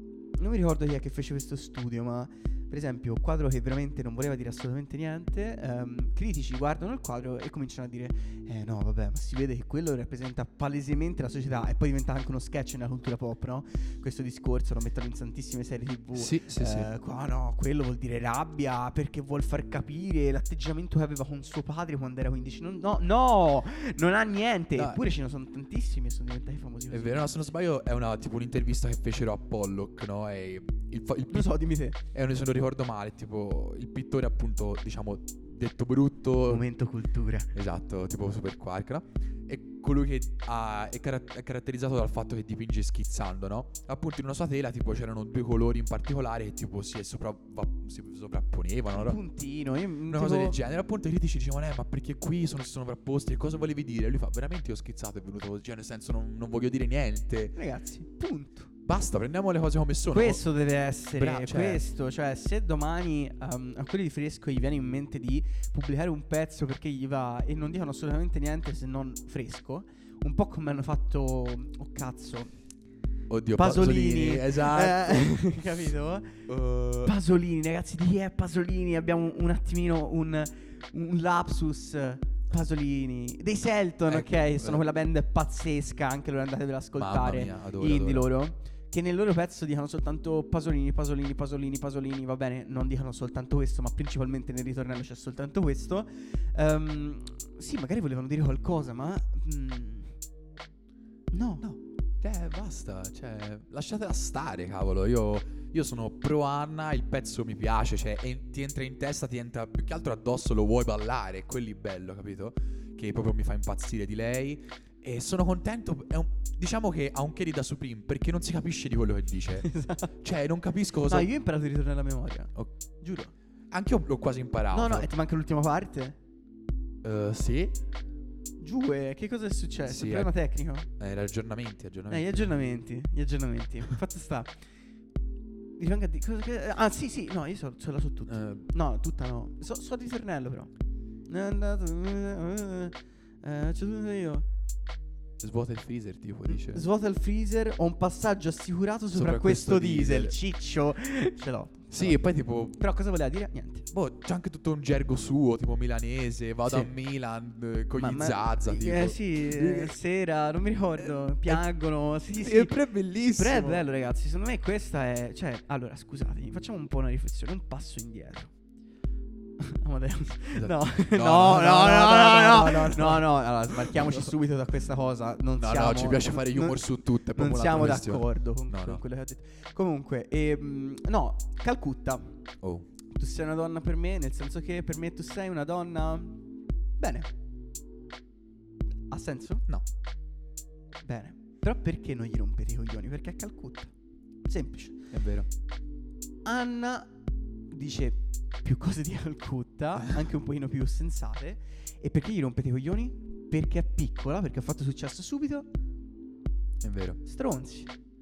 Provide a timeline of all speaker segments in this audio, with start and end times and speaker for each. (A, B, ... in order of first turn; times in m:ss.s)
0:00.4-0:27.4 A
0:16.1-0:16.9 B
0:24.7-0:25.1 B
0:26.9-0:36.7 B
0:31.3-0:32.0 A
0:36.4-0:37.5 A
0:37.5-0:49.2 B
0:48.9-0:50.6 A
0:50.1-0:57.6 B
0:57.5-0:58.7 A
0:58.8-1:00.4 B
1:00.1-1:12.5 A
1:01.1-1:01.8 B
1:13.3-1:15.6 B
1:13.6-1:16.4 A
1:16.5-1:17.2 B
1:17.0-1:40.2 A
1:24.1-1:24.8 B
1:27.0-1:28.3 B
1:41.3-1:41.6 A
1:41.6-1:59.7 B
1:59.5-2:00.1 A
2:00.2-2:01.3 B
2:01.0-2:03.3 A
2:03.7-2:05.1 B
2:04.7-2:06.2 A
2:07.0-2:07.8 B
2:08.6-2:10.9 A
2:09.9-2:10.4 B
2:11.0-2:12.6 B
2:12.1-2:14.6 A
2:15.8-2:20.7 A
2:18.3-2:18.7 B
2:21.3-2:24.4 A
2:25.4-2:26.8 B
2:26.5-2:33.9 A
2:29.1-2:30.4 B
2:31.9-2:32.8 B
2:33.9-2:40.0 B
2:36.6-2:36.9 A
2:38.0-2:48.5 A
2:41.0-2:41.6 B
2:42.3-2:43.9 B
2:49.6-3:02.4 A
2:50.5-2:54.3 B
2:55.6-2:59.0 B
3:02.6-3:02.9 B
3:03.1-3:06.4 A
3:07.0-3:07.3 A
3:09.1-3:09.6 A
3:11.0-3:13.9 A
3:14.4-3:15.1 A
3:15.1-3:15.5 B
3:16.4-3:17.1 A
3:17.7-3:25.7 A
3:26.8-3:27.2 B
3:27.2-3:27.9 A